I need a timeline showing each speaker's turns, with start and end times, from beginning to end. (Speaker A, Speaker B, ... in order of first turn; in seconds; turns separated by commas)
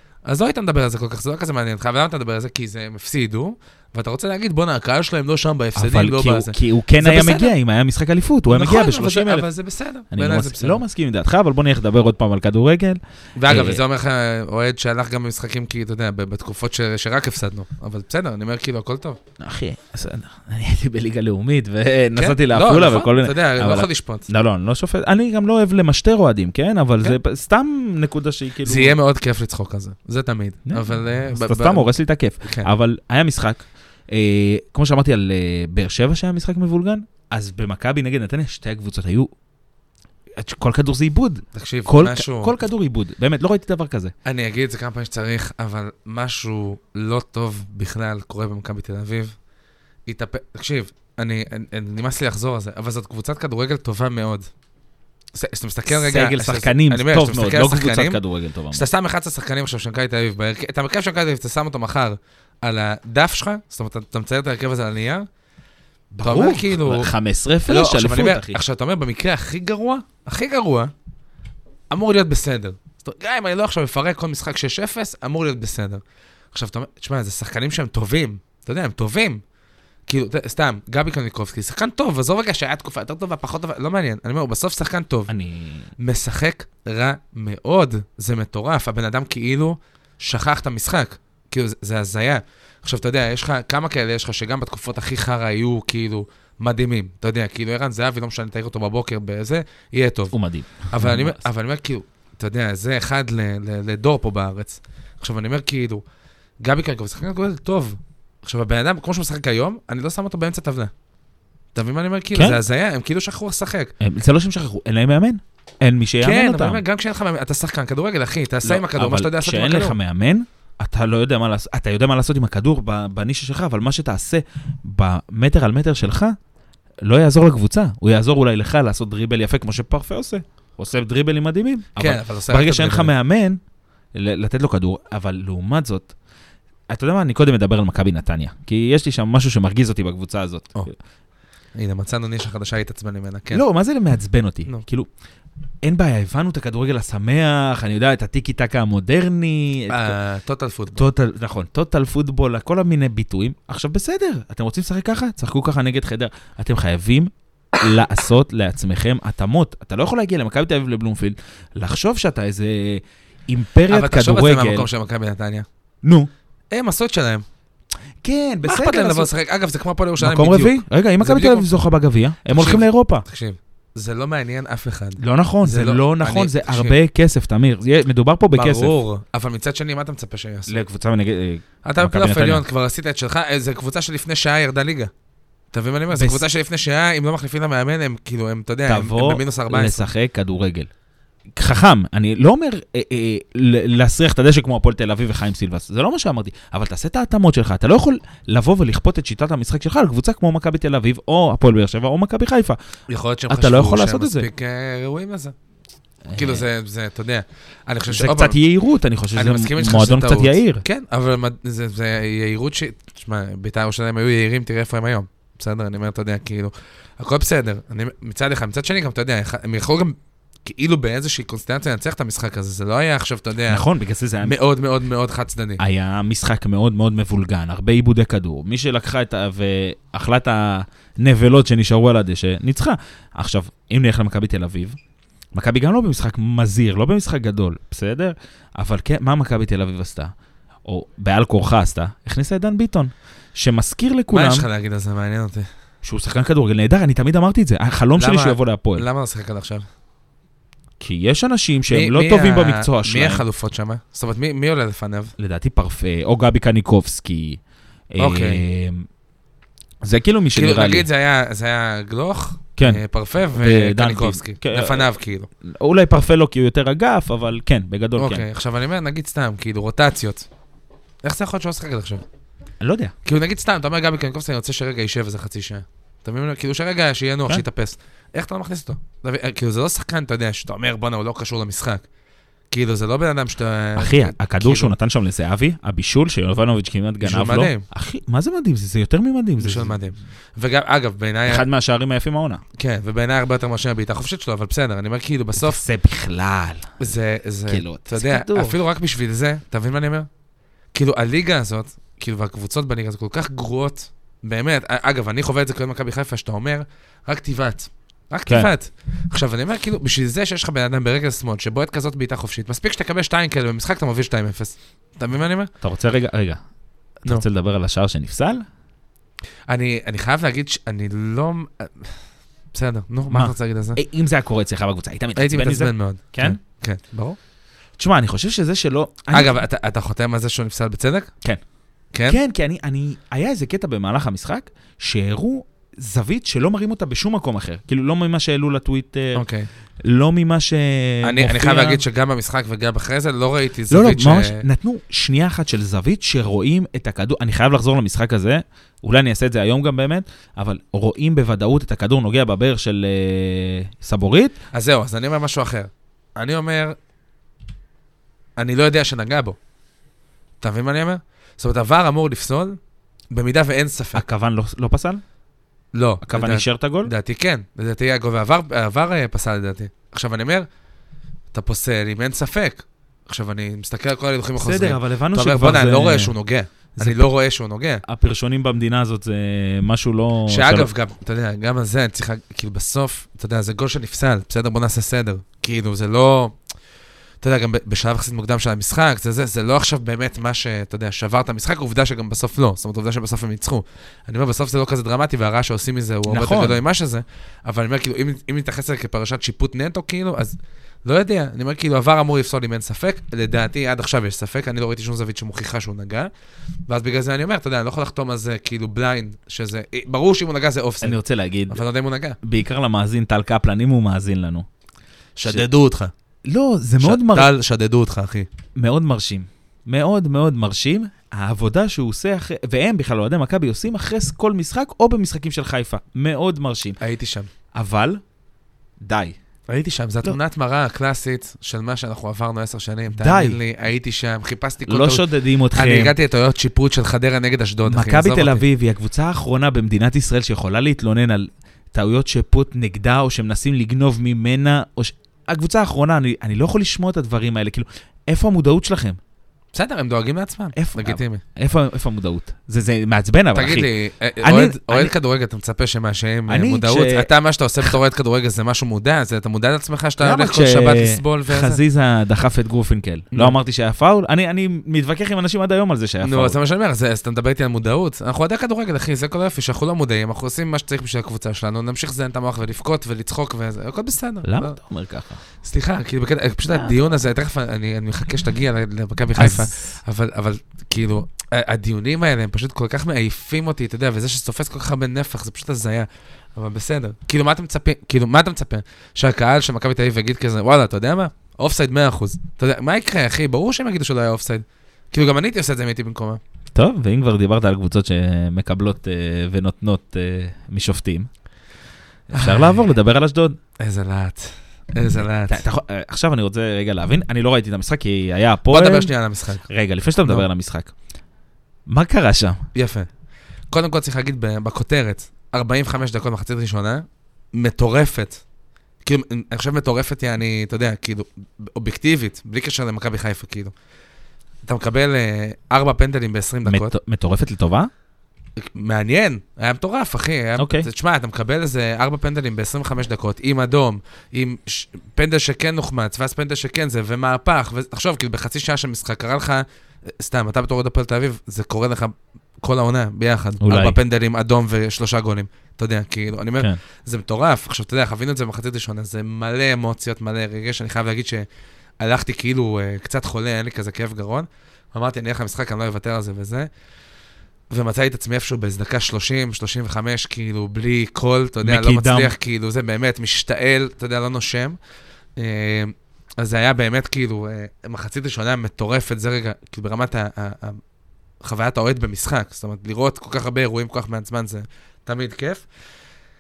Speaker A: 0.3-7.5, Speaker B: 5.8-9.5, Speaker A: 8.5-10.8, Speaker B: 10.1-13.8, Speaker A: 13.4-19.2, Speaker B: 19.4-28.9, Speaker A: 22.2-24.3, Speaker A: 28.6-31.9, Speaker B: 30.7-39.3, Speaker A: 32.4-32.7, Speaker B: 40.4-44.1, Speaker A: 41.5-42.5, Speaker A: 44.2-49.4, Speaker A: 50.1-54.5, Speaker A: 55.4-58.2, Speaker B: 55.9-58.9, Speaker A: 58.7-65.3, Speaker B: 66.1-68.6, Speaker A: 66.2-67.1, Speaker A: 67.7-70.9, Speaker A: 71.9-76.0, Speaker A: 76.5-79.4, Speaker A: 80.1-85.3, Speaker B: 85.3-85.9, Speaker A: 86.0-100.4, Speaker B: 100.3-101.4, Speaker A: 100.9-106.0, Speaker A: 106.6-110.9, Speaker A: 111.8-113.9, Speaker B: 112.3-112.6, Speaker B: 114.0-116.8, Speaker A: 116.2-120.0, Speaker B: 118.6-126.4, Speaker B: 127.0-133.6, Speaker A: 132.0-133.1, Speaker B: 134.1-136.1, Speaker B: 136.9-140.9, Speaker A: 141.8-143.6, Speaker B: 143.5-145.1, Speaker B: 145.8-150.2, Speaker A: 149.9-151.1, Speaker B: 150.9-164.9, Speaker A: 163.9-165.7, Speaker B: 166.0-166.3, Speaker A: 166.7-167.4, Speaker B: 168.2-169.3, Speaker A: 168.6-171.7, Speaker B: 170.2-173.2, Speaker A: 172.5-177.0, Speaker B: 175.2-178.9, Speaker A: 178.5-180.8, Speaker B: 180.7-182.6, Speaker A: 181.8-185.1, Speaker A: 185.7-190.1, Speaker B: 186.1-186.4, Speaker B: 188.9-190.9, Speaker B: 191.6-202.8, Speaker A: 203.1-205.5, Speaker B: 203.5-204.5, Speaker B: 206.3-206.7, Speaker A: 206.4-208.6, Speaker B: 208.1-210.8, Speaker A: 209.3-223.8, Speaker B: 223.7-224.6, Speaker A: 224.4-225.8, Speaker B: 225.8-235.0, Speaker B: 235.5-240.3, Speaker B: 240.8-244.7, Speaker A: 244.3-245.7, Speaker B: 246.0-249.1, Speaker A: 248.2-249.8, Speaker B: 251.0-253.4, Speaker A: 251.9-255.3, Speaker B: 255.4-257.6, Speaker B: 258.1-259.1, Speaker A: 258.2-258.6, Speaker B: 260.0-261.1, Speaker A: 260.5-265.5, Speaker B: 262.8-265.1, Speaker B: 265.6-268.5, Speaker A: 268.2-270.5, Speaker A: 271.2-272.2, Speaker B: 272.8-273.1, Speaker A: 273.2-282.0, Speaker A: 282.7-285.0, Speaker B: 284.0-290.0, Speaker A: 287.2-287.9, Speaker A: 289.6-291.6, Speaker B: 291.5-292.6, Speaker A: 292.8-295.8, Speaker B: 295.6-297.1, Speaker A: 297.0-300.3, Speaker B: 297.7-298.8, Speaker A: 300.9-315.7, Speaker B: 315.8-316.6, Speaker B: 317.2-318.6, Speaker A: 319.7-322.2, Speaker A: 322.7-324.0, Speaker B: 323.3-326.6, Speaker A: 325.4-327.4, Speaker B: 328.0-329.6, Speaker A: 329.3-331.3, Speaker A: 332.1-332.4, Speaker B: 332.3-339.5, Speaker A: 339.4-339.7, Speaker B: 340.0-342.0, Speaker A: 341.2-344.6, Speaker B: 343.9-354.6, Speaker A: 354.7-357.0, Speaker A: 358.6-359.6, Speaker A: 360.6-362.8, Speaker A: 363.3-364.2, Speaker B: 364.1-365.2, Speaker A: 365.9-370.7, Speaker B: 366.2-367.1, Speaker A: 371.5-378.0, Speaker B: 374.6-376.3, Speaker B: 377.0-377.3, Speaker B: 378.1-380.9, Speaker A: 380.5-386.6, Speaker A: 387.4-406.3, Speaker B: 396.3-396.8, Speaker A: 406.9-412.4, Speaker B: 411.0-411.8, Speaker B: 412.4-414.7, Speaker A: 415.4-416.1, Speaker B: 416.4-417.5, Speaker A: 417.0-418.5, Speaker B: 418.8-427.0, Speaker A: 427.0-427.5, Speaker B: 427.7-428.2, Speaker B: 429.0-429.4, Speaker A: 429.7-438.6, Speaker B: 433.2-433.6, Speaker B: 434.9-436.1, Speaker B: 437.9-449.2, Speaker A: 449.7-451.4, Speaker B: 450.8-453.9, Speaker A: 453.6-461.8, Speaker B: 454.4-455.1, Speaker B: 456.5-457.3, Speaker B: 460.2-466.6, Speaker A: 466.2-474.8, Speaker B: 474.4-475.4, Speaker A: 475.6-496.4, Speaker B: 476.7-477.0, Speaker B: 479.4-479.9, Speaker B: 496.7-501.3, Speaker B: 502.3-503.6, Speaker A: 502.3-502.8, Speaker A: 503.8-505.6, Speaker B: 505.5-509.1, Speaker A: 508.7-509.6, Speaker B: 509.7-510.9, Speaker B: 511.9-512.6, Speaker A: 512.7-513.1, Speaker A: 513.7-518.4, Speaker A: 519.0-523.7, Speaker A: 524.7-527.0, Speaker B: 526.7-527.9, Speaker A: 528.6-539.6, Speaker B: 530.6-530.9, Speaker A: 540.2-551.5, Speaker B: 543.6-544.0, Speaker A: 552.0-556.7, Speaker A: 557.7-564.8, Speaker B: 561.6-562.3, Speaker A: 565.4-570.8, Speaker A: 571.4-575.6